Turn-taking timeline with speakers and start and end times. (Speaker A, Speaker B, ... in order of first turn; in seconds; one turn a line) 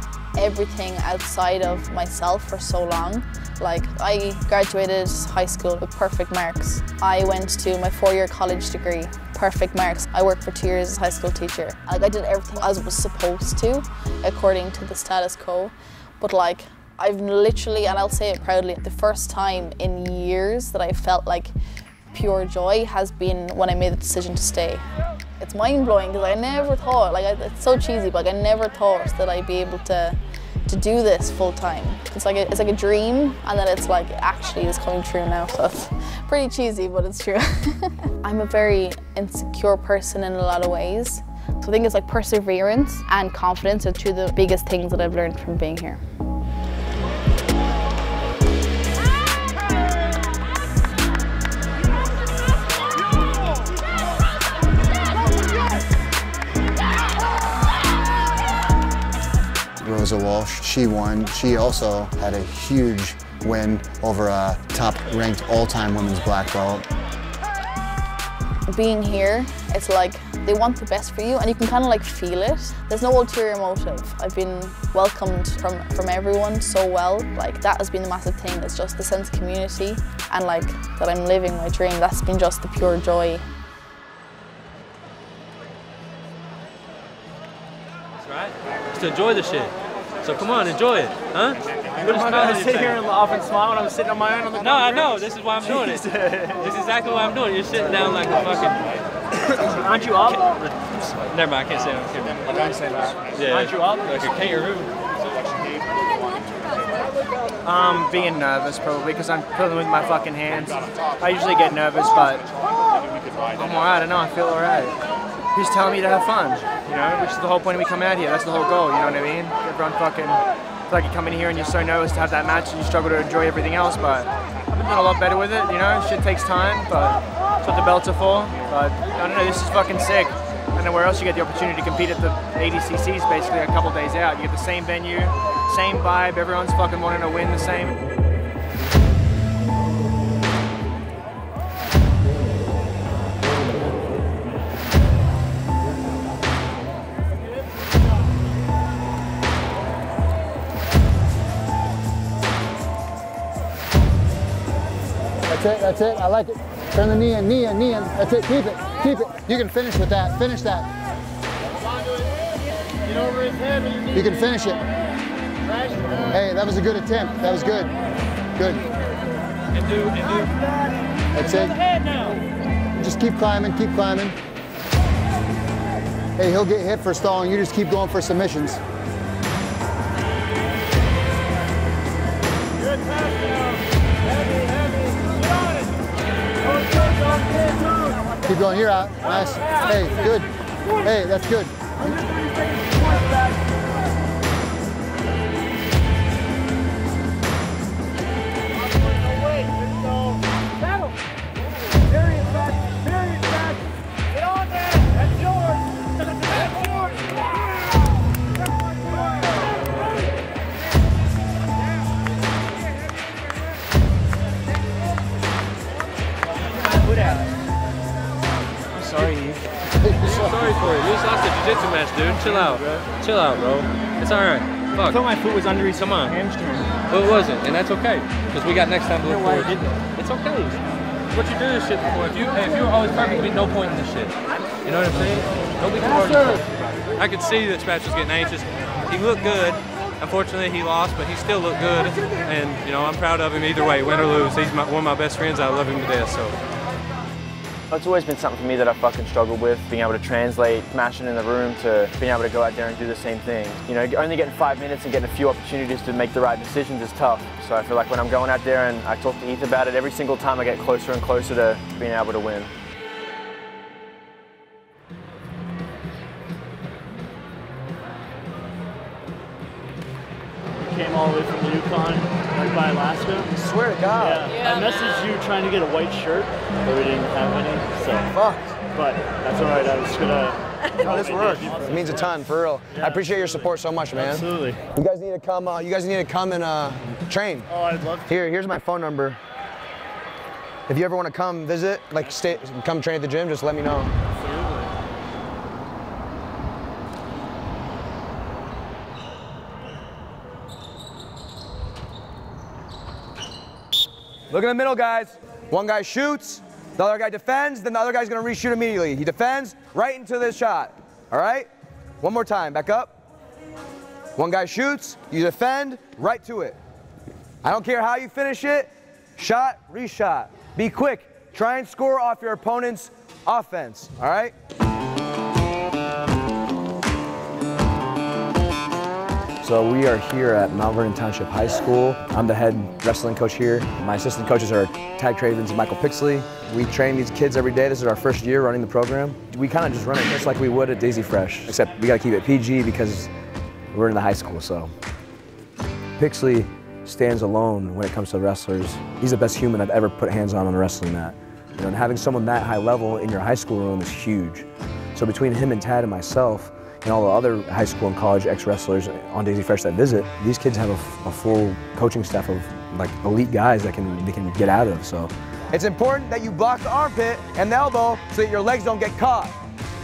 Speaker A: 0.3-21.5
Speaker A: 22.1-24.8
Speaker A: 25.4-46.0
Speaker B: 59.8-66.8
Speaker A: 68.7-83.5
Speaker C: 88.2-93.0
Speaker C: 94.6-96.1
Speaker C: 96.6-98.9
Speaker C: 99.5-102.6
Speaker C: 103.3-104.9
Speaker D: 107.7-112.4
Speaker D: 113.6-114.9
Speaker D: 115.5-120.4
Speaker D: 120.9-137.9
Speaker B: 155.5-160.9
Speaker E: 163.1-164.0
Speaker B: 164.1-164.8
Speaker E: 165.7-166.1
Speaker B: 166.3-167.9
Speaker B: 168.5-168.8
Speaker B: 171.3-171.8
Speaker B: 172.9-174.4
Speaker B: 176.4-178.8
Speaker B: 188.4-191.8
Speaker B: 220.0-220.7
Speaker C: 220.2-225.2
Speaker C: 227.1-230.8
Speaker C: 231.3-236.6
Speaker C: 237.1-246.6
Speaker F: 247.9-262.7
Speaker E: 270.9-273.5
Speaker G: 273.6-274.5
Speaker E: 274.1-278.3
Speaker G: 278.3-278.7
Speaker E: 278.9-282.3
Speaker G: 281.0-287.7
Speaker E: 282.9-284.8
Speaker E: 287.7-288.3
Speaker G: 288.3-289.4
Speaker G: 290.9-294.1
Speaker E: 294.4-294.8
Speaker G: 304.5-311.7
Speaker G: 312.2-313.1
Speaker G: 314.4-316.8
Speaker G: 317.6-324.5
Speaker G: 329.6-343.3
Speaker G: 343.9-344.9
Speaker G: 346.2-369.6